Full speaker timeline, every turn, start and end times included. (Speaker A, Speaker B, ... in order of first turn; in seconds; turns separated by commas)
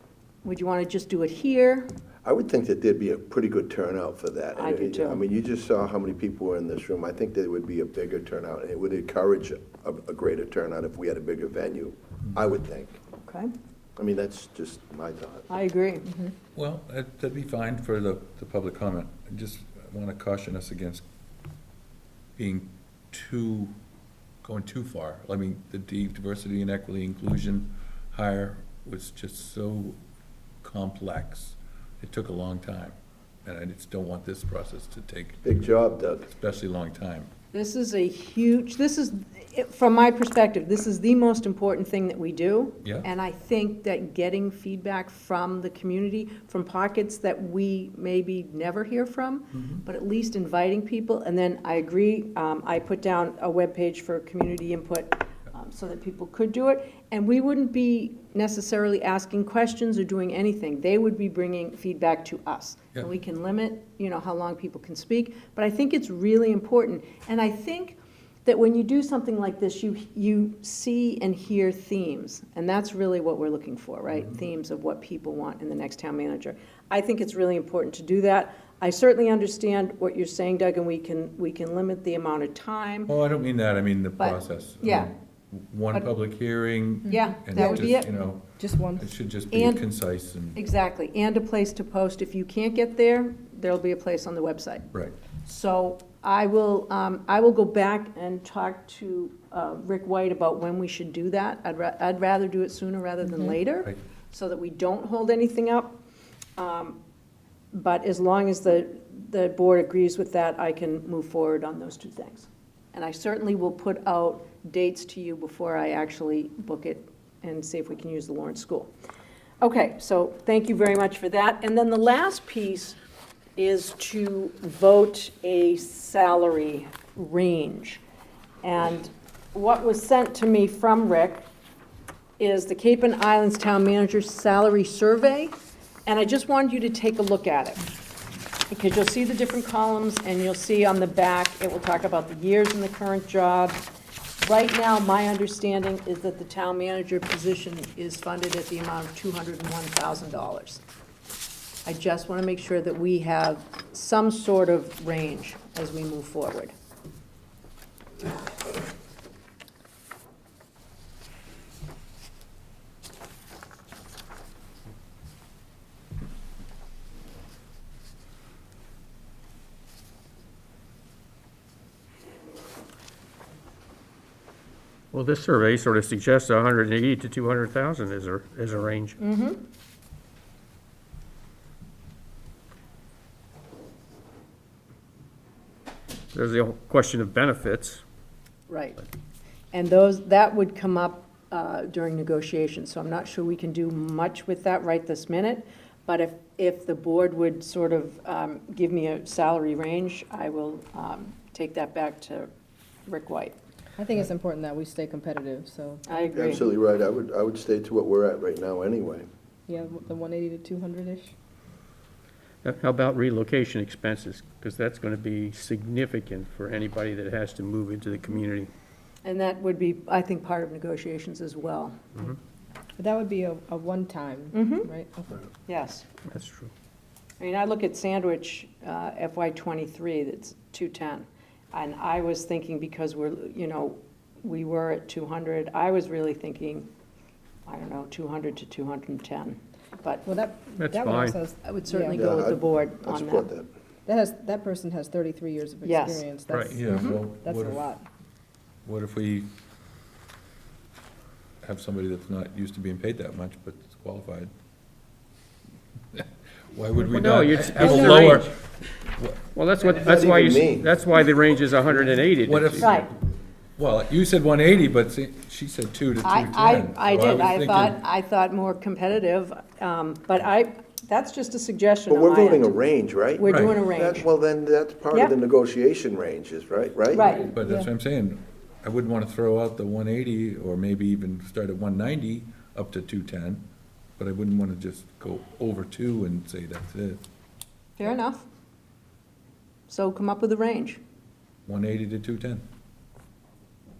Speaker A: 0.4-1.9, Speaker B: 2.2-13.0, Speaker A: 4.6-5.2, Speaker A: 13.2-13.5, Speaker B: 14.0-15.5, Speaker A: 15.5-16.1, Speaker C: 16.6-21.0, Speaker C: 22.4-23.7, Speaker C: 24.4-30.0, Speaker C: 30.6-35.4, Speaker B: 35.4-36.3, Speaker C: 36.3-37.3, Speaker A: 37.5-83.1, Speaker C: 83.1-90.6, Speaker A: 84.2-85.1, Speaker D: 87.1-88.0, Speaker A: 87.1-88.1, Speaker D: 88.6-89.2, Speaker A: 89.5-89.8, Speaker A: 90.5-94.9, Speaker A: 95.4-106.0, Speaker A: 106.6-107.0, Speaker A: 107.7-118.9, Speaker A: 119.6-123.0, Speaker A: 123.6-128.0, Speaker A: 128.6-131.5, Speaker A: 132.4-137.8, Speaker A: 138.7-143.8, Speaker A: 144.4-150.8, Speaker A: 151.9-156.7, Speaker E: 175.1-179.2, Speaker A: 179.2-179.6, Speaker E: 186.3-188.0, Speaker A: 188.7-189.0, Speaker A: 189.7-202.5, Speaker A: 203.1-203.6, Speaker D: 204.0-206.6, Speaker A: 206.1-206.6, Speaker B: 206.3-209.3, Speaker D: 209.7-211.3, Speaker E: 212.6-218.7, Speaker A: 219.2-222.0, Speaker D: 223.0-225.5, Speaker A: 224.5-224.9, Speaker A: 225.7-226.1, Speaker E: 226.3-226.7, Speaker A: 227.4-236.9, Speaker A: 237.7-240.3, Speaker D: 240.2-242.2, Speaker E: 240.8-241.4, Speaker A: 241.6-243.5, Speaker B: 242.1-243.7, Speaker D: 244.1-248.0, Speaker A: 245.8-246.2, Speaker E: 246.5-246.8, Speaker C: 246.7-247.8, Speaker A: 246.9-247.2, Speaker C: 248.8-249.5, Speaker C: 251.6-254.5, Speaker C: 256.1-258.6, Speaker E: 257.1-258.5, Speaker C: 259.1-259.4, Speaker E: 259.5-263.0, Speaker B: 259.8-261.0, Speaker C: 262.4-263.1, Speaker A: 262.8-263.1, Speaker C: 263.8-268.0, Speaker A: 266.2-272.7, Speaker B: 272.1-277.3, Speaker A: 273.4-274.3, Speaker C: 273.5-273.7, Speaker A: 277.1-277.5, Speaker C: 277.3-283.6, Speaker D: 277.6-277.9, Speaker C: 284.2-287.2, Speaker A: 288.0-288.5, Speaker A: 289.9-291.0, Speaker C: 291.7-292.6